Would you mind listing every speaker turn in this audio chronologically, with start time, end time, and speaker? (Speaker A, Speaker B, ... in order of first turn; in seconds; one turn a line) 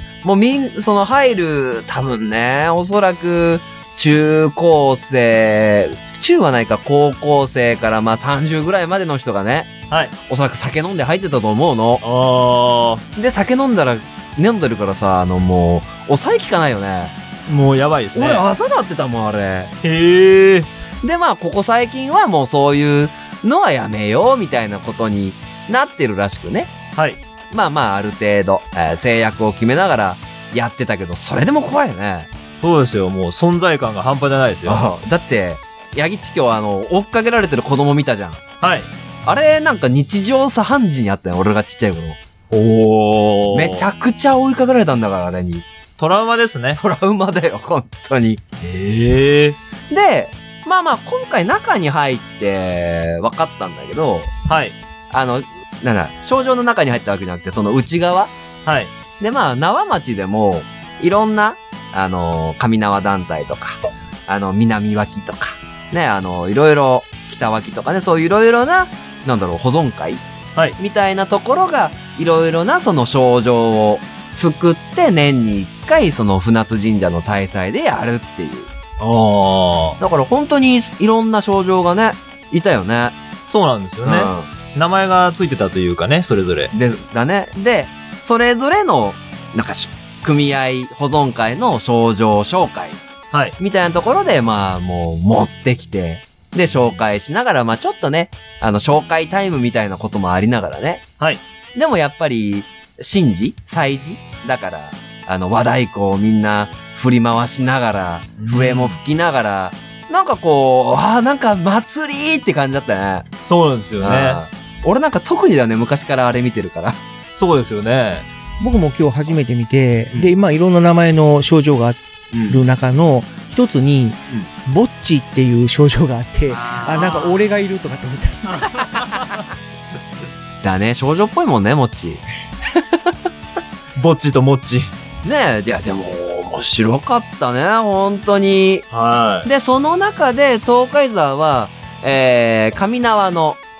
Speaker A: 0.2-9.7
Speaker A: 10.3-12.0
Speaker B: 12.0-13.0
Speaker A: 13.2-17.1
Speaker B: 17.5-18.4
Speaker A: 18.1-19.7
Speaker B: 19.8-20.7
Speaker A: 21.0-26.7
Speaker A: 27.5-32.3
Speaker B: 32.6-34.9
Speaker A: 34.6-38.4
Speaker B: 38.6-38.9
Speaker A: 39.2-42.2
Speaker B: 42.5-43.9
Speaker A: 43.5-45.6
Speaker B: 46.0-46.8
Speaker A: 46.8-48.4
Speaker B: 48.6-49.6
Speaker A: 49.9-54.3
Speaker B: 54.5-54.8
Speaker A: 55.1-58.3
Speaker B: 58.6-58.9
Speaker A: 59.2-70.2
Speaker A: 70.8-78.7
Speaker B: 79.0-80.0
Speaker A: 80.0-83.2
Speaker B: 83.5-86.7
Speaker A: 84.0-84.5
Speaker A: 86.7-93.0
Speaker A: 93.6-101.0
Speaker A: 101.7-113.3
Speaker B: 108.4-109.0
Speaker B: 113.5-114.4
Speaker A: 114.0-117.0
Speaker B: 117.3-118.2
Speaker C: 118.6-128.8
Speaker A: 122.3-122.6
Speaker B: 126.5-127.4
Speaker A: 130.6-133.2
Speaker B: 133.9-134.9
Speaker A: 135.2-138.8
Speaker B: 138.9-139.5
Speaker A: 139.4-143.6